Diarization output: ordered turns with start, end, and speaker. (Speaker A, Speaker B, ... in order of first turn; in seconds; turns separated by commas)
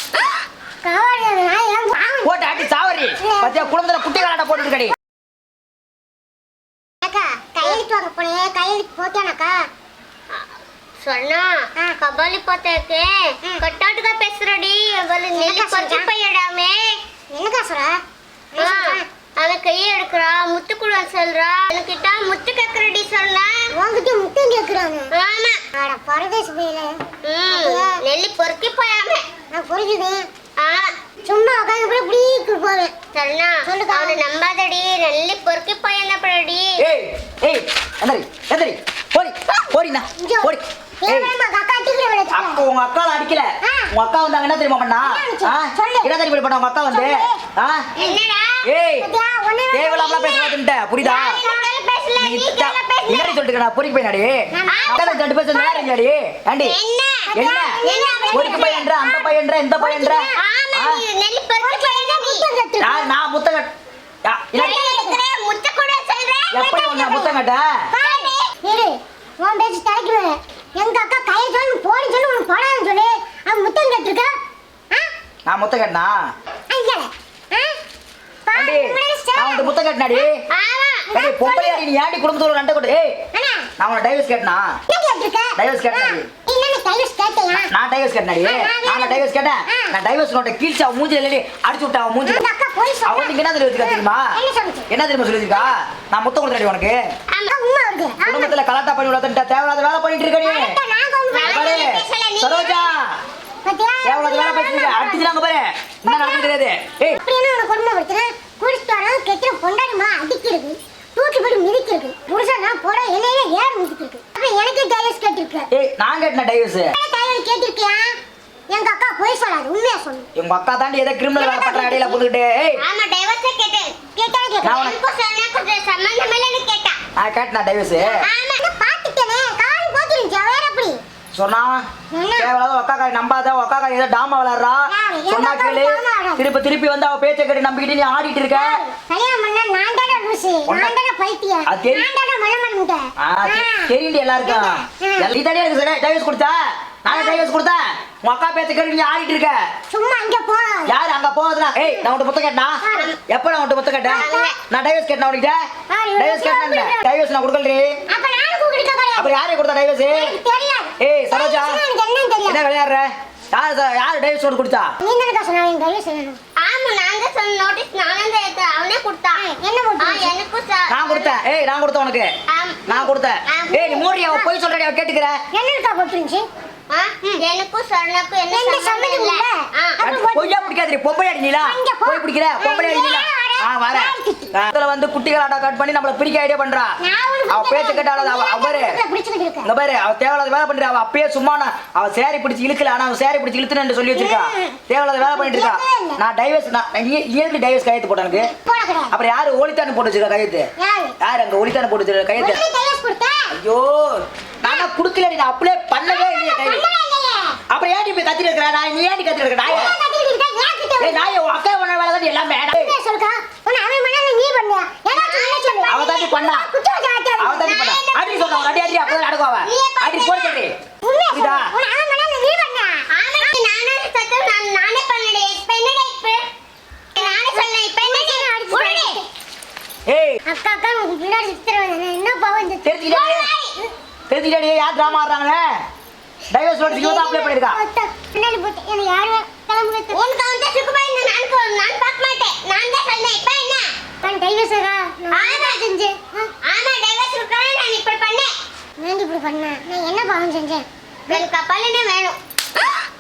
Speaker A: 0.8-2.6, Speaker B: 2.2-5.0, Speaker A: 3.2-3.8, Speaker A: 7.0-9.6, Speaker C: 11.0-17.0, Speaker A: 15.3-16.1, Speaker A: 17.3-18.0, Speaker A: 18.5-19.1, Speaker C: 18.6-23.7, Speaker A: 23.7-25.1, Speaker C: 25.1-25.6, Speaker A: 25.7-27.0, Speaker C: 27.2-29.2, Speaker A: 27.5-28.0, Speaker A: 29.5-30.3, Speaker C: 30.6-30.9, Speaker A: 31.3-32.9, Speaker C: 33.1-36.8, Speaker A: 33.6-34.2, Speaker B: 36.8-41.3, Speaker A: 40.2-42.6, Speaker B: 42.3-47.8, Speaker A: 43.6-43.9, Speaker A: 45.0-46.1, Speaker A: 46.9-47.4, Speaker C: 48.0-48.6, Speaker B: 48.6-49.1, Speaker A: 49.0-50.6, Speaker B: 49.7-51.4, Speaker C: 51.0-53.4, Speaker A: 51.1-51.7, Speaker B: 52.2-56.8, Speaker A: 54.5-55.9, Speaker C: 54.7-55.0, Speaker C: 56.6-57.3, Speaker A: 57.3-60.4, Speaker B: 57.4-57.8, Speaker C: 57.8-58.8, Speaker B: 58.3-61.0, Speaker C: 60.4-62.5, Speaker A: 61.6-63.1, Speaker B: 62.8-63.7, Speaker B: 64.2-64.8, Speaker C: 64.5-66.7, Speaker A: 64.6-65.2, Speaker B: 66.5-67.7, Speaker A: 66.6-67.4, Speaker A: 67.9-74.4, Speaker C: 68.0-68.4, Speaker B: 75.5-76.1, Speaker A: 76.7-77.8, Speaker A: 78.5-79.8, Speaker B: 78.5-80.4, Speaker C: 80.5-81.1, Speaker A: 81.1-81.8, Speaker B: 81.1-83.2, Speaker A: 83.3-83.7, Speaker B: 83.8-84.7, Speaker A: 84.9-87.7, Speaker B: 85.6-86.3, Speaker B: 87.7-92.4, Speaker A: 88.4-89.9, Speaker A: 92.2-94.9, Speaker B: 93.1-94.3, Speaker B: 94.9-97.0, Speaker A: 97.5-98.6, Speaker B: 98.2-100.7, Speaker A: 100.4-101.8, Speaker C: 101.3-102.9, Speaker B: 101.5-103.0, Speaker A: 103.7-105.4, Speaker B: 104.0-107.2, Speaker A: 106.1-106.5, Speaker A: 107.1-115.7, Speaker B: 115.7-116.9, Speaker A: 116.9-118.1, Speaker A: 118.7-120.3, Speaker B: 120.3-122.8, Speaker A: 121.4-122.2, Speaker C: 122.8-124.0, Speaker A: 124.2-125.0, Speaker B: 124.6-124.9, Speaker C: 124.7-127.0, Speaker B: 127.2-128.2, Speaker A: 128.2-131.0, Speaker C: 128.2-128.7, Speaker B: 131.3-131.8, Speaker A: 132.1-132.5, Speaker B: 132.4-138.8, Speaker A: 134.9-136.4, Speaker A: 138.5-143.9, Speaker B: 140.7-140.9, Speaker B: 141.7-142.1, Speaker B: 143.2-149.6, Speaker A: 144.4-145.3, Speaker A: 147.1-147.5, Speaker A: 149.9-150.9, Speaker B: 150.9-155.6, Speaker A: 152.8-153.1, Speaker C: 152.9-153.2, Speaker A: 154.1-154.5, Speaker C: 154.1-154.6, Speaker A: 155.9-157.1, Speaker B: 156.2-157.9, Speaker A: 158.1-159.3, Speaker B: 159.2-160.3, Speaker A: 160.1-162.6, Speaker B: 161.0-161.8, Speaker B: 162.4-164.9, Speaker A: 165.0-166.4, Speaker C: 166.6-169.4, Speaker A: 169.4-170.3, Speaker C: 170.0-171.4, Speaker B: 170.9-172.3, Speaker C: 172.5-174.4, Speaker B: 172.9-175.4, Speaker A: 175.5-176.5, Speaker C: 176.9-180.0, Speaker A: 178.5-180.7, Speaker B: 180.0-186.9, Speaker A: 181.6-184.5, Speaker A: 187.0-189.7, Speaker B: 187.5-189.0, Speaker B: 189.7-198.5, Speaker A: 194.2-196.2, Speaker A: 198.3-199.1, Speaker B: 199.1-200.7, Speaker A: 200.8-201.2, Speaker B: 201.2-202.6, Speaker A: 202.4-203.5, Speaker B: 203.5-206.8, Speaker A: 206.0-207.6, Speaker B: 207.7-209.9, Speaker A: 209.7-211.4, Speaker B: 211.0-213.0, Speaker A: 212.7-217.9, Speaker C: 215.1-215.9, Speaker B: 215.9-216.7, Speaker B: 217.4-220.7, Speaker C: 217.6-220.6, Speaker A: 221.0-223.6, Speaker B: 221.3-221.7, Speaker C: 223.1-226.5, Speaker C: 227.2-229.2, Speaker A: 227.2-229.2, Speaker B: 230.1-230.4, Speaker A: 230.5-233.0, Speaker B: 232.8-233.5, Speaker C: 233.1-233.7, Speaker B: 234.3-235.7, Speaker B: 236.5-237.8, Speaker A: 236.9-240.2, Speaker C: 240.1-243.9, Speaker A: 244.2-246.5, Speaker C: 245.3-245.9, Speaker C: 246.7-248.5, Speaker A: 249.0-251.4, Speaker C: 251.3-252.4